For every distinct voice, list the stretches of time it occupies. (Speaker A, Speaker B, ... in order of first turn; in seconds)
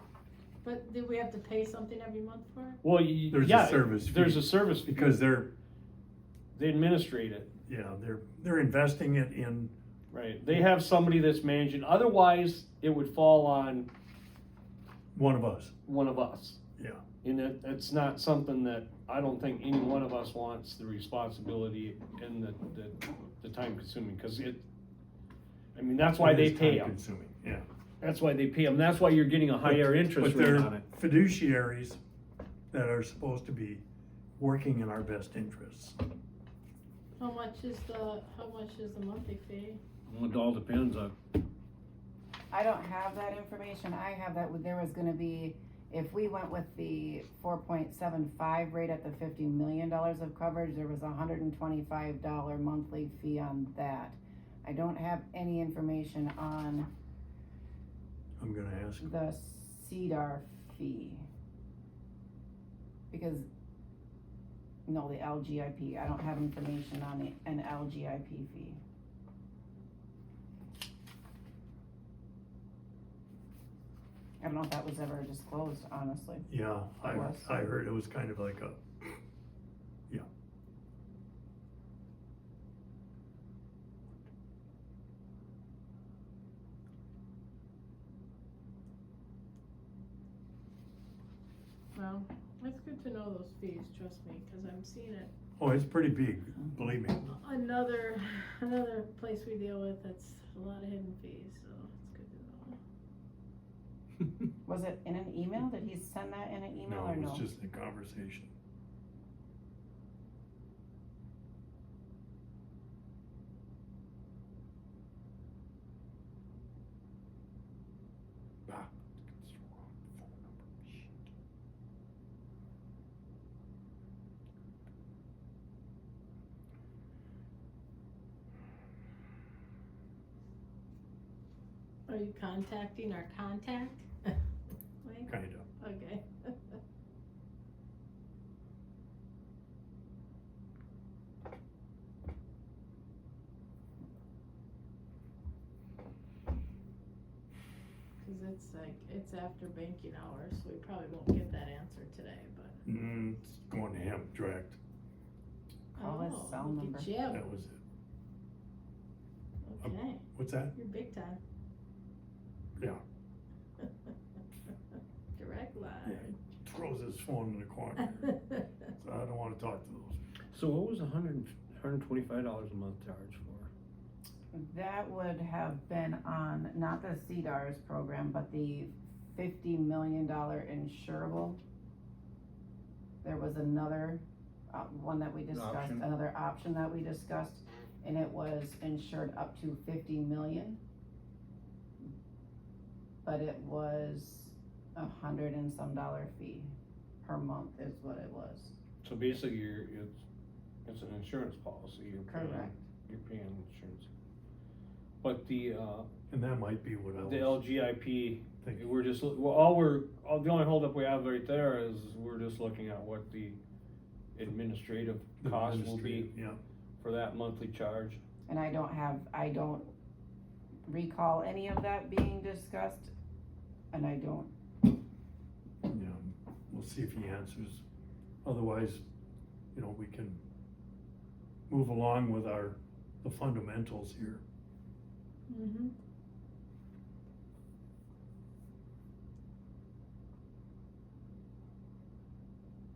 Speaker A: 0.6-2.8, 37.2-39.8, 91.9-95.3, 97.2-102.8, 132.1-134.3, 135.0-136.8, 148.2-152.8, 155.9-157.4, 159.6-160.2, 160.7-161.4, 165.3-166.3, 168.3-168.7, 235.5-235.9
Speaker B: 2.8-5.1, 6.5-7.5, 10.1-13.9, 15.8-16.6, 17.2-24.6, 25.7-26.9, 28.0-30.8, 40.1-41.1, 170.5-173.7, 185.5-186.1, 199.0-200.2, 200.8-204.1, 205.2-206.1, 207.2-213.6, 214.3-216.3, 217.0-218.2
Speaker C: 3.3-5.5, 7.7-9.7, 15.1-15.7, 26.2-27.6, 29.6-32.0, 32.7-33.8, 34.4-36.0, 58.4-59.1, 76.5-78.8, 95.6-97.2, 106.8-108.5, 118.7-121.1, 135.3-135.7, 152.8-154.8, 157.3-157.8, 159.8-160.7, 166.0-168.3, 168.9-170.2, 206.3-207.6, 215.4-216.6, 225.8-227.8, 228.4-229.0, 229.7-230.4, 231.7-234.4
Speaker D: 42.5-56.9, 59.0-61.3, 63.1-63.5, 64.9-68.8, 74.4-76.5, 77.0-77.6, 104.7-107.5, 155.9-157.1, 174.5-181.6, 183.2-190.8, 193.2-198.8, 202.3-202.7, 218.5-219.9, 220.9-223.1, 223.9-224.5